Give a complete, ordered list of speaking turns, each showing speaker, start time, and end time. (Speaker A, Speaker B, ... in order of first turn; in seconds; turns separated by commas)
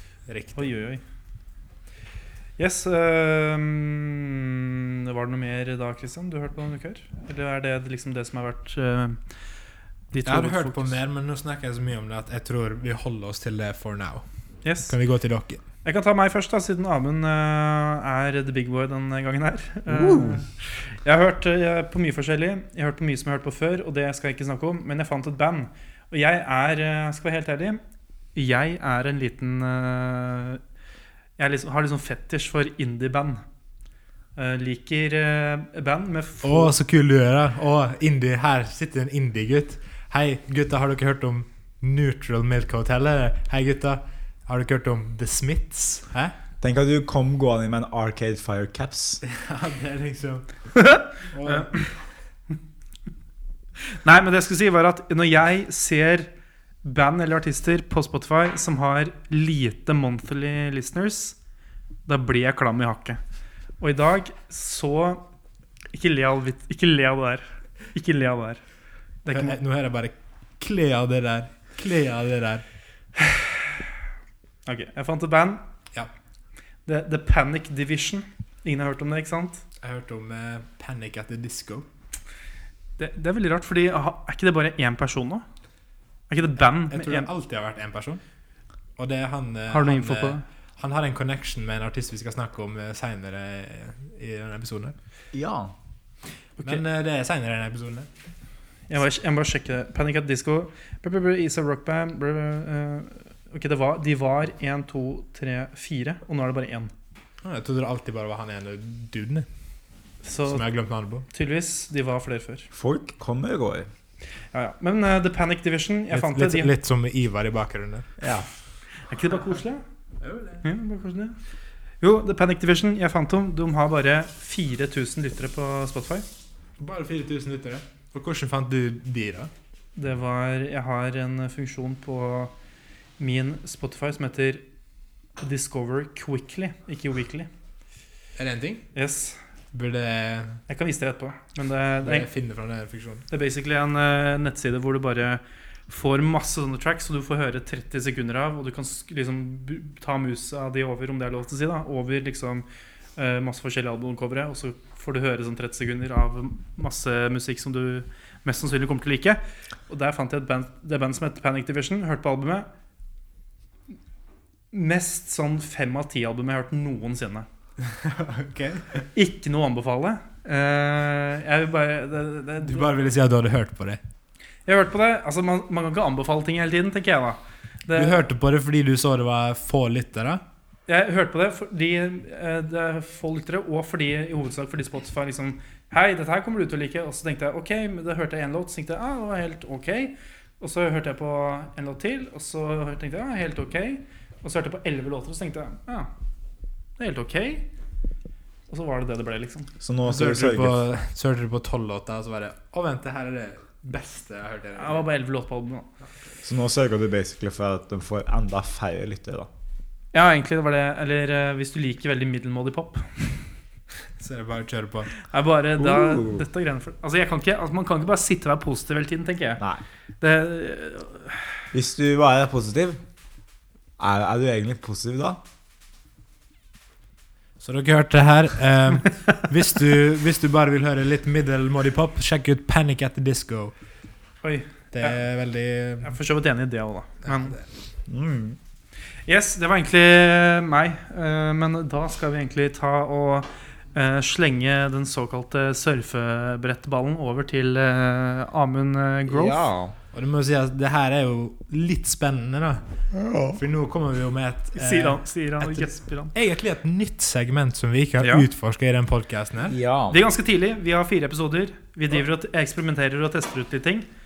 Speaker A: 0.3-0.7, Speaker B: 0.6-1.0, Speaker B: 2.6-9.2, Speaker B: 10.1-10.9, Speaker A: 10.2-14.2, Speaker B: 14.6-14.9, Speaker A: 14.9-15.6, Speaker B: 15.8-27.8, Speaker C: 19.9-20.4, Speaker B: 28.3-30.6, Speaker B: 31.4-33.4, Speaker B: 34.4-36.7, Speaker A: 36.4-46.3, Speaker C: 46.6-49.2, Speaker A: 49.2-50.5, Speaker B: 50.9-51.7, Speaker A: 51.3-51.9, Speaker B: 54.0-56.3, Speaker B: 56.8-61.4, Speaker B: 62.0-63.2, Speaker B: 63.8-65.2, Speaker B: 65.9-68.6, Speaker B: 69.2-69.5, Speaker A: 69.3-72.6, Speaker A: 73.2-73.5, Speaker B: 74.7-75.6, Speaker B: 76.8-79.6, Speaker A: 79.8-81.8, Speaker B: 83.0-85.4, Speaker B: 86.3-87.3, Speaker A: 86.9-88.2, Speaker A: 89.0-94.9, Speaker B: 89.7-90.4, Speaker C: 95.3-95.7, Speaker A: 96.6-98.1, Speaker B: 98.9-106.9, Speaker A: 107.4-109.5, Speaker B: 110.2-110.7, Speaker A: 110.5-111.2, Speaker B: 111.3-112.7, Speaker C: 112.7-113.9, Speaker B: 114.5-116.7, Speaker A: 116.1-118.1, Speaker C: 118.2-118.5, Speaker B: 119.1-119.8, Speaker A: 120.2-120.6, Speaker B: 120.6-121.4, Speaker B: 122.0-126.2, Speaker A: 126.8-129.5, Speaker B: 129.9-132.5, Speaker B: 133.2-134.6, Speaker B: 135.4-137.5, Speaker A: 138.4-138.8, Speaker B: 138.9-139.4, Speaker A: 139.7-140.6, Speaker B: 140.7-142.3, Speaker A: 142.0-143.2, Speaker B: 143.3-162.7, Speaker B: 164.7-167.5, Speaker A: 167.9-169.0, Speaker B: 169.1-172.9, Speaker A: 172.7-174.0, Speaker B: 174.7-178.2, Speaker A: 177.9-180.4, Speaker B: 180.9-196.1, Speaker B: 197.0-197.7, Speaker B: 198.7-199.7, Speaker C: 199.8-200.8, Speaker A: 200.0-205.0, Speaker B: 204.8-205.9, Speaker C: 206.4-209.5, Speaker B: 210.1-213.3, Speaker A: 214.2-215.1, Speaker B: 215.2-219.6, Speaker C: 215.8-216.4, Speaker B: 220.2-221.6, Speaker C: 221.7-223.0, Speaker C: 224.0-225.4, Speaker A: 227.6-233.7, Speaker B: 234.4-235.2, Speaker A: 234.9-236.1, Speaker B: 236.0-237.6, Speaker C: 238.1-238.6, Speaker B: 239.2-249.6, Speaker C: 249.3-249.9, Speaker A: 250.1-252.8, Speaker C: 253.1-253.6, Speaker A: 253.5-259.8, Speaker B: 254.7-256.3, Speaker B: 258.2-258.4, Speaker C: 259.7-260.2, Speaker B: 260.1-264.1